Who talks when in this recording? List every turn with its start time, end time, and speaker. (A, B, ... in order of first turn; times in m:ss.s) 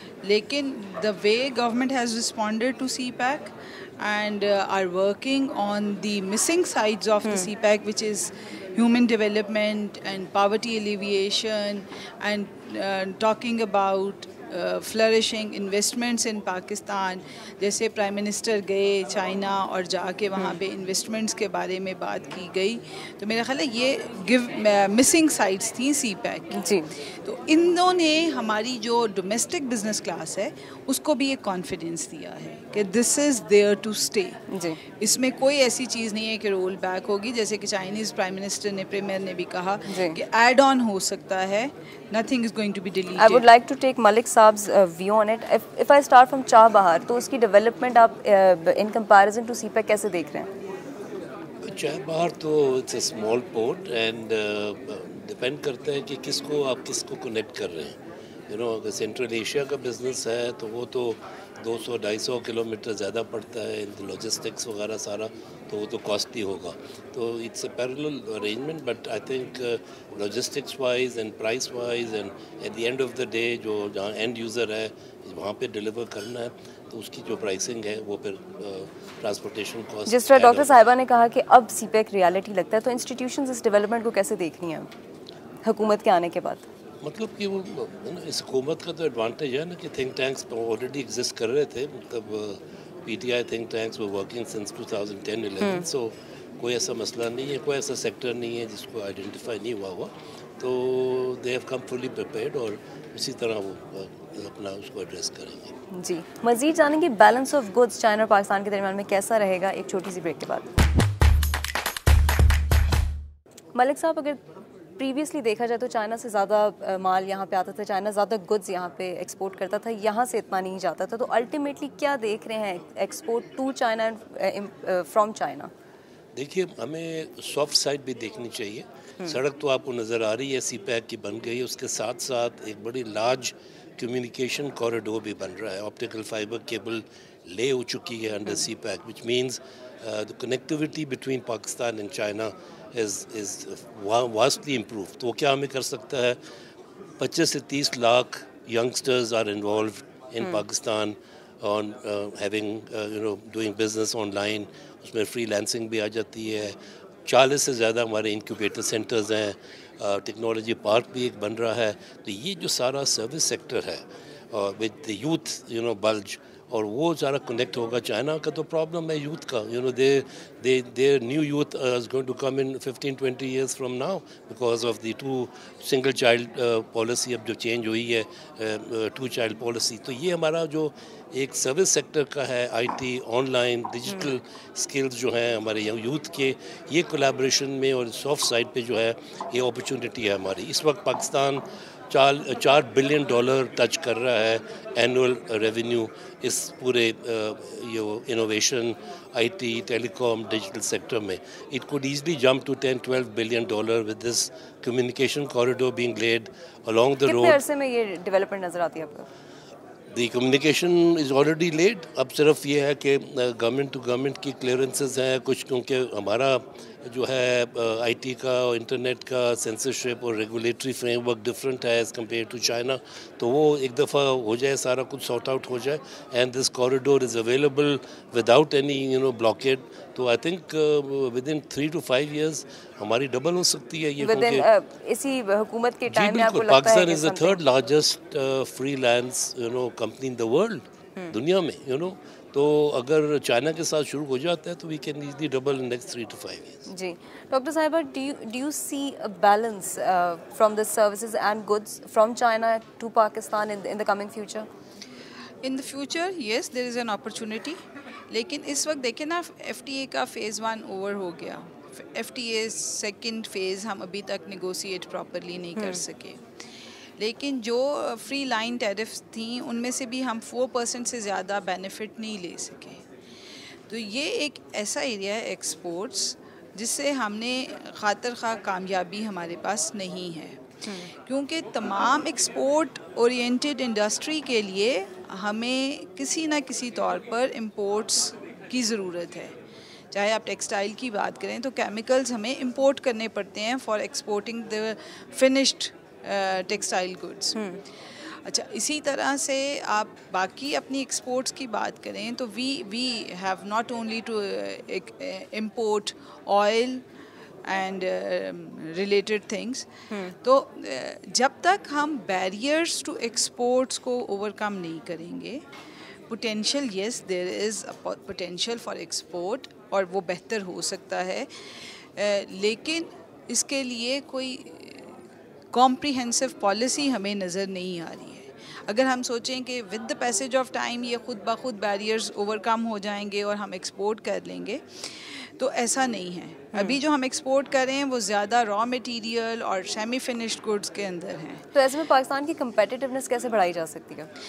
0:00.2-0:34.4 A
0:07.2-0:07.5 B
0:26.5-0:26.9 B
0:34.5-0:34.8 B
0:35.0-0:43.4 A
0:39.9-0:40.2 B
0:43.2-0:50.5 B
0:51.6-1:20.7 C
1:20.1-1:24.9 B
1:25.6-1:26.7 B
1:27.0-1:45.7 C
1:35.6-1:35.9 B
1:45.9-1:50.7 B
1:53.8-1:54.4 B
1:55.0-2:05.7 B
2:06.4-2:26.4 C
2:27.2-3:27.6 C
3:04.1-3:04.3 B
3:27.2-3:29.3 B
3:30.1-3:54.7 C
3:54.2-3:57.6 B
3:56.1-4:06.8 C
4:06.9-4:14.7 B
4:15.6-4:17.8 A
4:18.3-4:26.4 A
4:27.2-4:33.0 A
4:33.9-4:40.6 A
4:40.8-4:41.1 B
4:41.3-4:49.5 A
4:50.1-4:57.6 A
4:57.6-4:57.8 B
4:58.4-5:07.0 A
5:07.6-5:09.9 A
5:10.4-5:15.6 A
5:16.3-5:25.2 A
5:25.7-5:41.6 A
5:41.8-5:44.3 B